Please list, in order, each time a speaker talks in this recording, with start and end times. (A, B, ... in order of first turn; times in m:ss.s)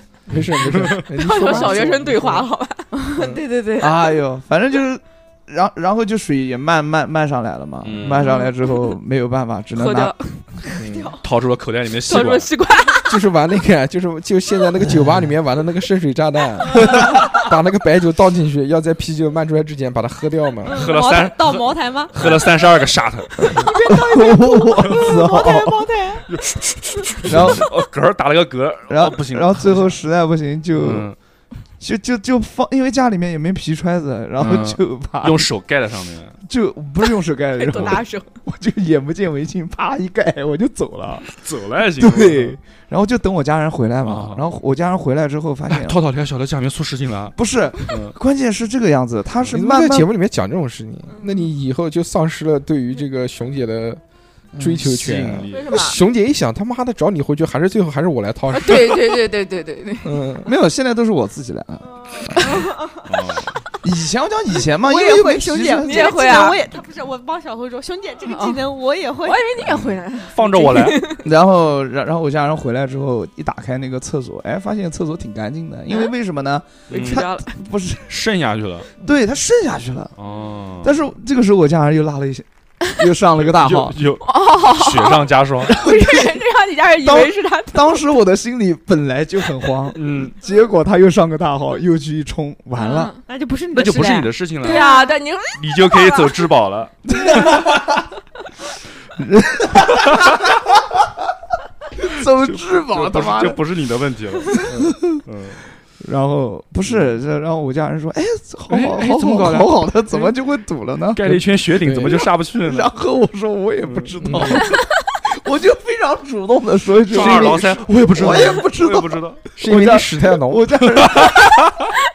0:00.3-0:02.5 A
0:00.7-0:01.1 B
0:01.2-0:03.0 C
0:01.4-0:01.7 D
0:03.0-0:03.9 D
0:03.8-0:10.1 E
0:07.8-0:08.3 B
0:08.2-0:08.5 C
0:09.8-0:10.7 C
0:10.8-0:11.2 A
0:10.9-0:11.2 D
0:11.2-0:12.5 B
0:12.0-0:13.2 C
0:13.1-0:20.9 A
0:20.7-0:22.1 D
0:20.7-0:23.5 B
0:23.6-0:26.3 D
0:23.9-0:25.8 E
0:26.3-0:30.0 B
0:27.3-0:27.7 E
0:28.9-0:31.1 E
0:30.8-0:31.2 B
0:31.8-0:35.5 E
0:34.4-0:36.4 B
0:36.4-0:41.4 E
0:37.6-0:38.3 C
0:41.3-0:42.6 B
0:42.0-0:46.0 E
0:44.0-0:44.5 B
0:45.7-0:47.4 B
0:47.4-0:50.1 E
0:47.9-0:48.2 B
0:49.5-0:54.0 A
0:51.2-0:51.4 C
0:54.5-0:55.4 E
0:54.6-0:59.2 A
0:54.8-0:55.7 B
0:55.5-0:56.0 C
0:58.5-1:00.2 C
1:00.0-1:00.5 A
1:00.4-1:02.5 E
1:02.4-1:02.9 D
1:03.0-1:03.6 B
1:03.8-1:06.5 E
1:04.8-1:09.4 D
1:05.8-1:06.6 C
1:08.3-1:11.3 C
1:09.6-1:11.1 B
1:11.2-1:18.2 E
1:16.9-1:17.3 B
1:16.9-1:17.5 C
1:18.1-1:18.9 B
1:19.0-1:20.1 E
1:20.2-1:21.0 B
1:20.8-1:24.0 E
1:23.4-1:25.8 B
1:24.2-1:28.0 C
1:25.7-1:26.4 E
1:27.0-1:33.1 E
1:29.9-1:30.4 B
1:32.8-1:33.2 C
1:33.3-1:35.2 D
1:33.7-1:34.9 B
1:34.6-1:36.5 C
1:35.6-1:37.6 B
1:37.1-1:38.0 E
1:39.2-1:40.4 E
1:40.1-1:40.3 B
1:42.0-1:43.6 E
1:42.4-1:45.6 B
1:44.7-1:45.0 A
1:44.7-1:45.2 E
1:46.0-1:51.2 E
1:48.7-1:50.3 A
1:51.1-1:52.9 B
1:51.2-1:52.3 A
1:52.1-2:01.6 E
1:53.9-1:54.1 B
1:54.2-1:54.7 A
1:57.1-1:59.6 B
1:59.6-2:00.8 A
2:01.0-2:01.7 B